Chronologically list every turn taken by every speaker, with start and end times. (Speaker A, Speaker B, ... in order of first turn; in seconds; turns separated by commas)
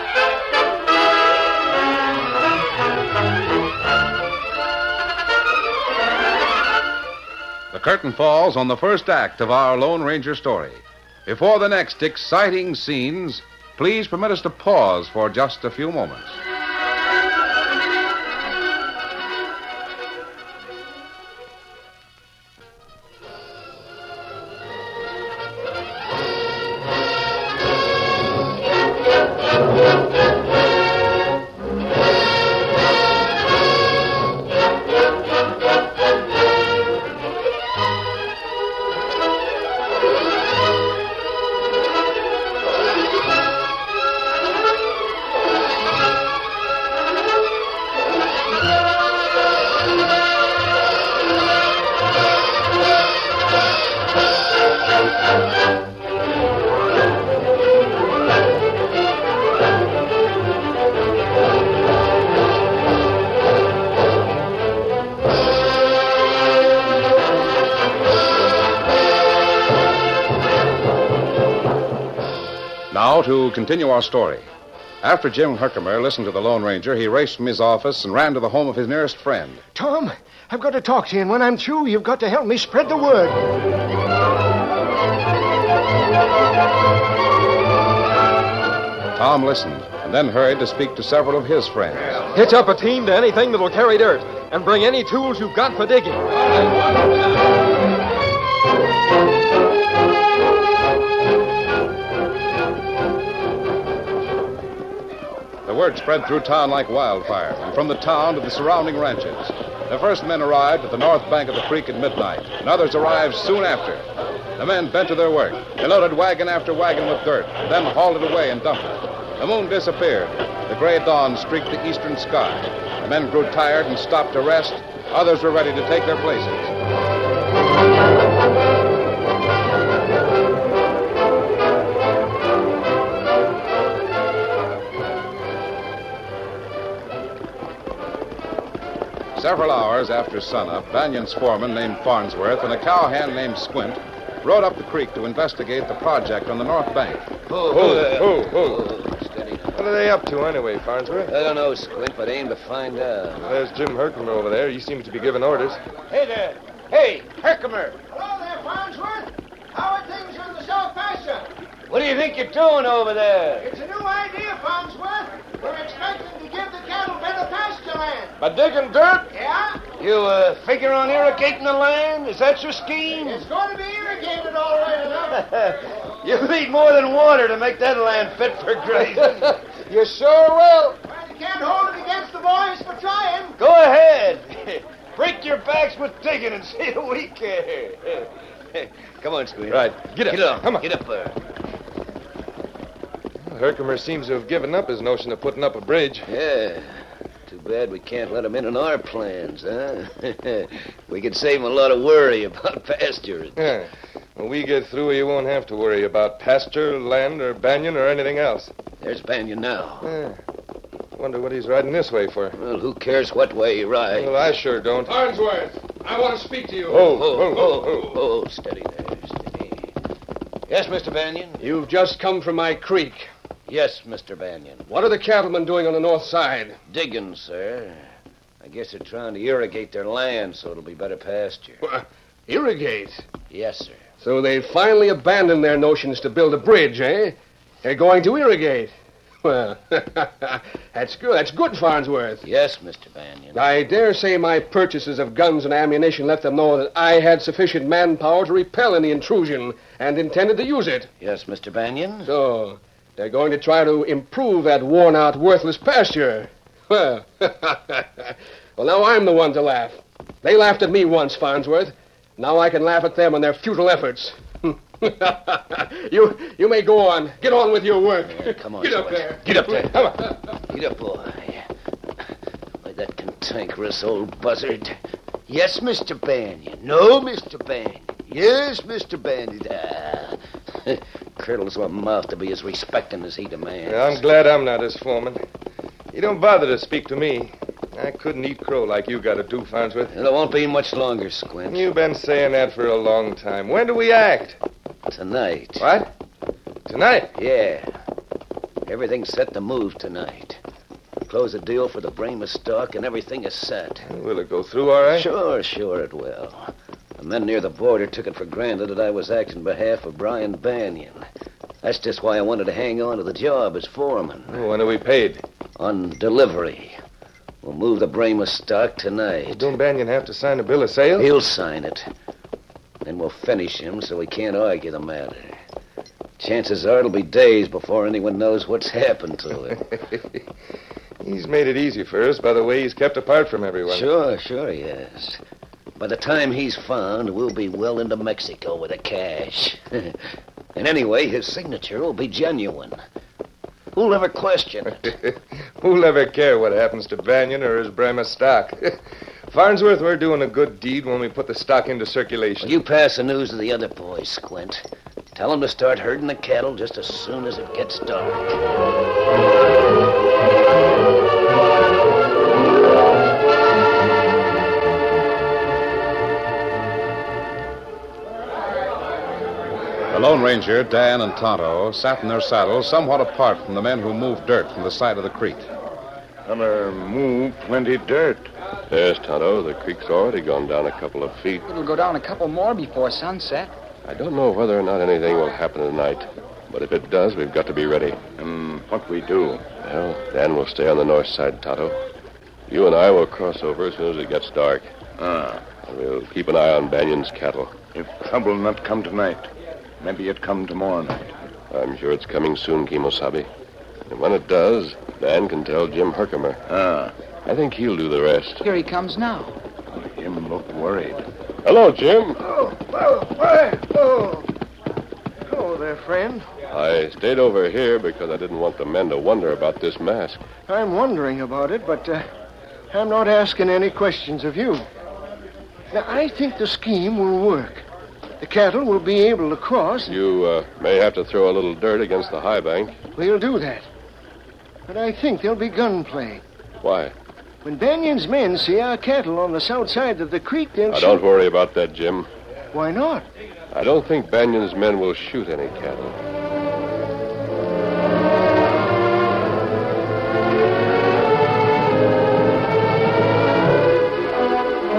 Speaker A: 7.7-16.4, Speaker A: 72.9-74.5, Speaker A: 75.0-79.6, Speaker B: 79.7-83.5, Speaker A: 89.2-92.3, Speaker A: 105.7-114.0, Speaker A: 114.6-126.7, Speaker A: 139.4-147.2, Speaker C: 147.5-150.0, Speaker D: 147.7-148.8, Speaker D: 149.8-151.3, Speaker C: 151.3-153.6, Speaker D: 153.4-155.8, Speaker C: 156.0-158.0, Speaker B: 158.1-161.5, Speaker C: 161.9-163.7, Speaker B: 163.6-168.3, Speaker C: 168.4-169.3, Speaker B: 169.3-169.8, Speaker C: 169.9-173.5, Speaker B: 173.2-175.5, Speaker C: 175.3-180.9, Speaker B: 181.0-183.6, Speaker C: 183.6-191.4, Speaker D: 189.7-190.8, Speaker D: 193.5-196.3, Speaker C: 196.3-203.8, Speaker D: 203.6-208.7, Speaker C: 209.0-210.2, Speaker D: 210.0-210.4, Speaker D: 211.2-212.6, Speaker C: 212.6-214.5, Speaker D: 214.2-215.2, Speaker E: 215.1-217.3, Speaker D: 216.9-218.1, Speaker C: 217.0-219.9, Speaker C: 220.7-221.7, Speaker E: 221.6-223.3, Speaker C: 223.7-224.9, Speaker E: 224.9-226.8, Speaker C: 226.9-228.1, Speaker C: 228.6-231.8, Speaker E: 231.8-233.2, Speaker C: 233.5-234.0, Speaker E: 234.2-242.4, Speaker C: 242.4-243.7, Speaker E: 243.5-251.1, Speaker C: 251.2-252.3, Speaker E: 252.3-270.1, Speaker C: 268.2-271.7, Speaker C: 272.8-275.0, Speaker C: 275.5-284.2, Speaker D: 283.9-285.4, Speaker D: 286.1-290.1, Speaker C: 290.1-291.9, Speaker D: 291.7-294.6, Speaker C: 295.1-295.9, Speaker D: 295.8-296.1, Speaker D: 296.9-297.3, Speaker C: 297.3-297.9, Speaker C: 298.9-300.6, Speaker C: 301.3-304.1, Speaker D: 304.1-305.3, Speaker C: 305.1-311.2, Speaker C: 311.8-314.7, Speaker D: 314.5-315.4, Speaker C: 315.8-317.0, Speaker C: 317.6-319.7, Speaker D: 319.5-321.3, Speaker C: 321.2-322.1, Speaker C: 323.0-325.6, Speaker C: 326.4-329.8, Speaker D: 331.2-334.1, Speaker C: 333.9-335.4, Speaker C: 336.0-340.2, Speaker C: 340.8-343.0, Speaker C: 343.9-345.1, Speaker D: 345.0-349.0, Speaker D: 349.5-352.8, Speaker C: 352.6-354.8, Speaker C: 355.4-358.5, Speaker A: 370.1-375.6, Speaker F: 376.4-378.5, Speaker G: 378.9-381.6, Speaker H: 381.7-383.7, Speaker G: 384.1-388.2, Speaker F: 388.4-389.6, Speaker G: 389.8-392.0, Speaker G: 392.7-394.9, Speaker F: 395.2-395.6, Speaker G: 395.8-397.7, Speaker F: 397.9-399.5, Speaker F: 400.0-401.3, Speaker G: 401.7-403.5, Speaker G: 404.1-406.6, Speaker F: 406.7-407.1, Speaker G: 407.5-408.6, Speaker H: 408.6-409.6, Speaker F: 409.9-411.3, Speaker G: 411.6-412.4, Speaker B: 412.4-414.5, Speaker B: 415.5-416.5, Speaker G: 416.7-420.4, Speaker B: 420.7-422.2, Speaker B: 422.9-424.9, Speaker B: 425.9-427.9, Speaker B: 428.4-430.2, Speaker G: 430.1-433.0, Speaker B: 433.2-433.9, Speaker B: 434.9-436.4, Speaker G: 436.8-437.1, Speaker B: 437.6-441.2, Speaker G: 440.9-442.3, Speaker B: 442.7-443.3, Speaker G: 443.7-446.2